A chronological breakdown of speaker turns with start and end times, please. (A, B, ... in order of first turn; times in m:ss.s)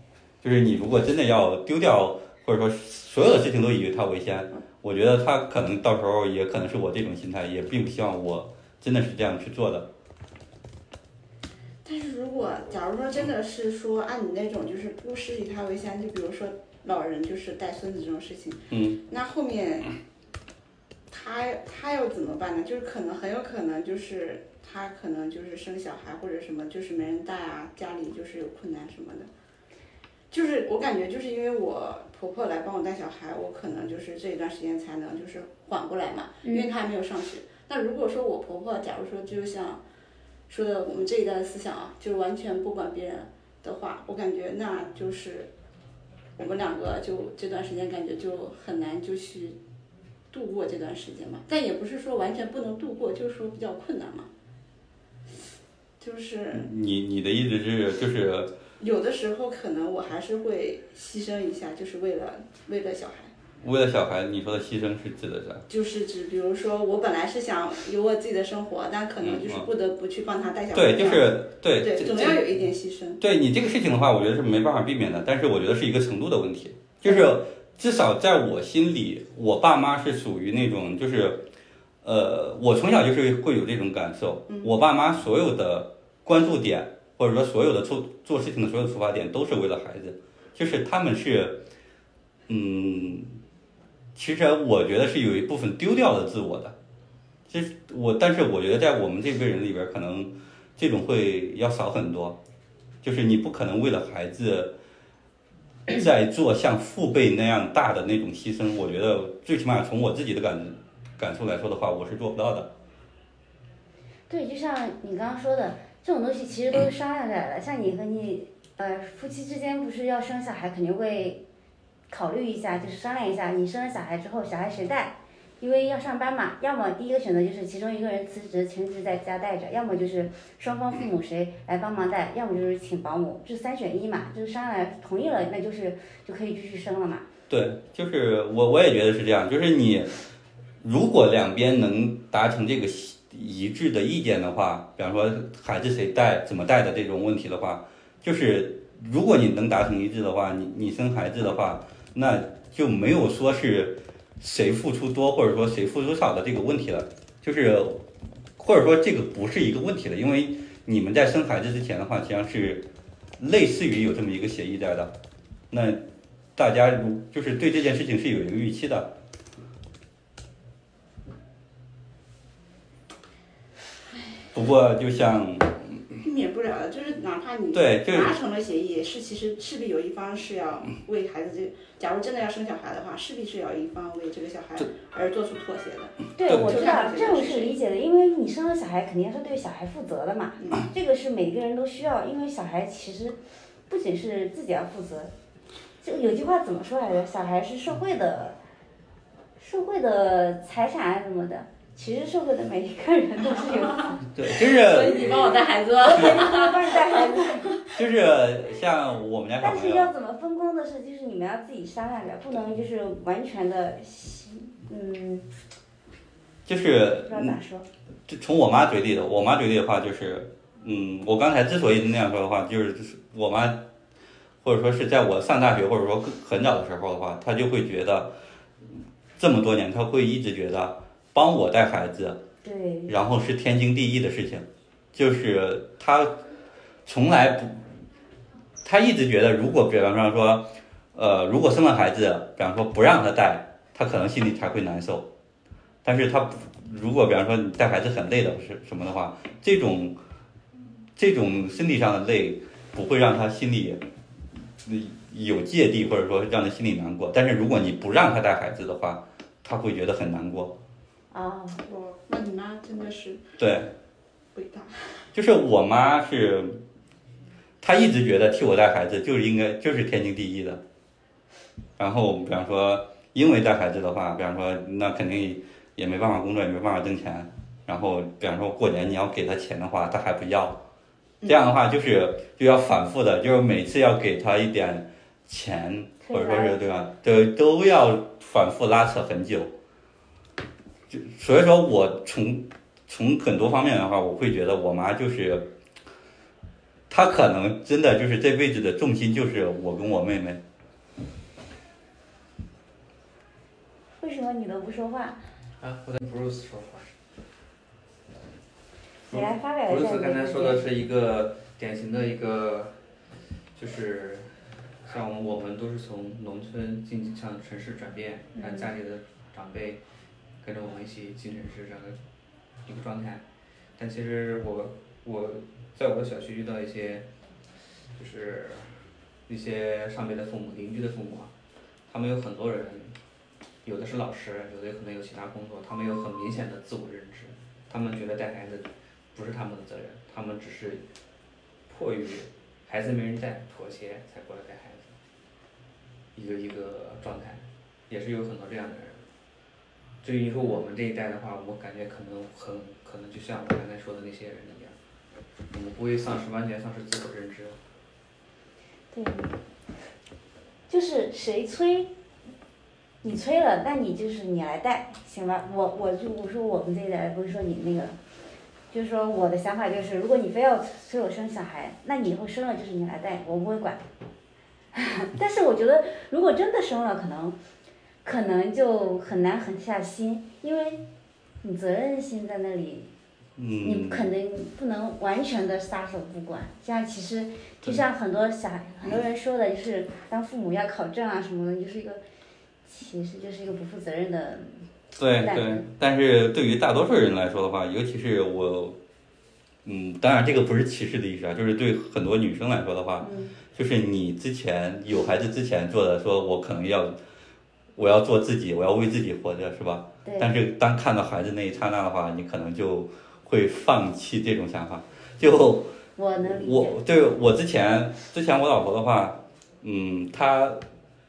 0:00.4-0:09.9 A
0:11.8-0:20.0 B
0:18.7-0:19.0 A
0:21.1-0:29.3 B
0:30.3-0:39.8 B
0:36.4-0:36.7 C
0:40.5-0:45.5 B
0:46.4-0:49.6 B
0:50.3-0:54.3 B
0:56.0-0:56.6 B
0:56.5-0:58.5 A
0:58.8-1:03.3 B
1:03.6-1:05.6 A
1:05.7-1:13.2 B
1:09.2-1:09.7 A
1:10.7-1:12.4 A
1:13.2-1:21.4 A
1:22.0-1:31.6 A
1:32.5-1:33.4 A
1:34.1-1:36.7 A
1:37.5-1:42.4 A
1:43.0-1:44.7 A
1:45.9-1:52.7 A
1:54.3-2:01.4 C
2:02.1-2:17.2 C
2:17.5-2:20.1 A
2:20.8-2:38.0 A
2:38.6-2:42.9 A
2:43.4-2:45.1 A
2:45.7-2:46.0 A
2:46.6-2:49.1 A
2:54.5-2:56.2 A
2:56.2-3:07.7 B
2:57.7-2:58.3 A
3:06.3-3:13.4 C
3:06.4-3:06.9 A
3:13.9-3:15.3 C
3:16.0-3:18.6 C
3:19.6-3:24.2 C
3:24.2-3:25.6 A
3:24.4-3:27.8 B
3:26.0-3:27.8 C
3:27.9-3:30.1 A
3:29.6-3:35.5 C
3:36.6-3:37.6 A
3:37.3-3:37.9 C
3:38.3-3:43.8 A
3:44.6-3:48.3 A
3:49.4-3:52.4 A
3:52.6-3:53.1 C
3:53.1-3:56.4 A
3:57.0-3:57.8 A
3:58.8-4:05.3 A
4:06.0-4:10.2 A
4:11.2-4:14.0 A
4:14.8-4:20.7 A
4:21.3-4:21.8 C
4:21.8-4:23.4 B
4:23.6-4:23.9 A
4:24.5-4:25.2 B
4:25.3-4:26.8 A
4:27.8-4:30.8 A
4:32.0-4:40.8 A
4:41.4-4:49.7 A
4:46.2-4:47.1 C
4:51.1-4:55.7 A
4:57.1-5:00.6 A
5:04.2-5:05.4 C
5:05.8-5:07.1 D
5:09.3-5:12.9 D
5:09.3-5:10.8 C
5:13.8-5:14.5 D
5:15.0-5:20.0 D
5:18.6-5:18.9 C
5:20.6-5:22.2 D
5:22.8-5:23.4 D
5:24.0-5:27.3 D
5:28.2-5:29.0 D
5:29.5-5:31.5 D
5:32.1-5:33.2 D
5:33.8-5:41.0 D
5:41.9-5:45.2 D
5:46.4-5:49.2 D
5:50.2-5:54.9 D
5:55.7-5:57.8 D
5:59.1-5:59.5 C
6:00.9-6:02.1 C
6:03.2-6:08.2 C
6:08.9-6:14.0 C
6:14.9-6:17.6 C
6:18.2-6:21.0 C
6:21.6-6:23.1 C
6:23.6-6:24.3 A
6:23.8-6:32.2 C
6:32.9-6:34.8 C
6:35.2-6:39.0 A
6:35.4-6:35.9 C
6:39.8-6:47.2 A
6:43.2-6:43.6 C
6:48.0-6:55.9 A
6:50.2-6:50.5 C
6:56.2-6:57.0 C
6:56.4-7:00.8 A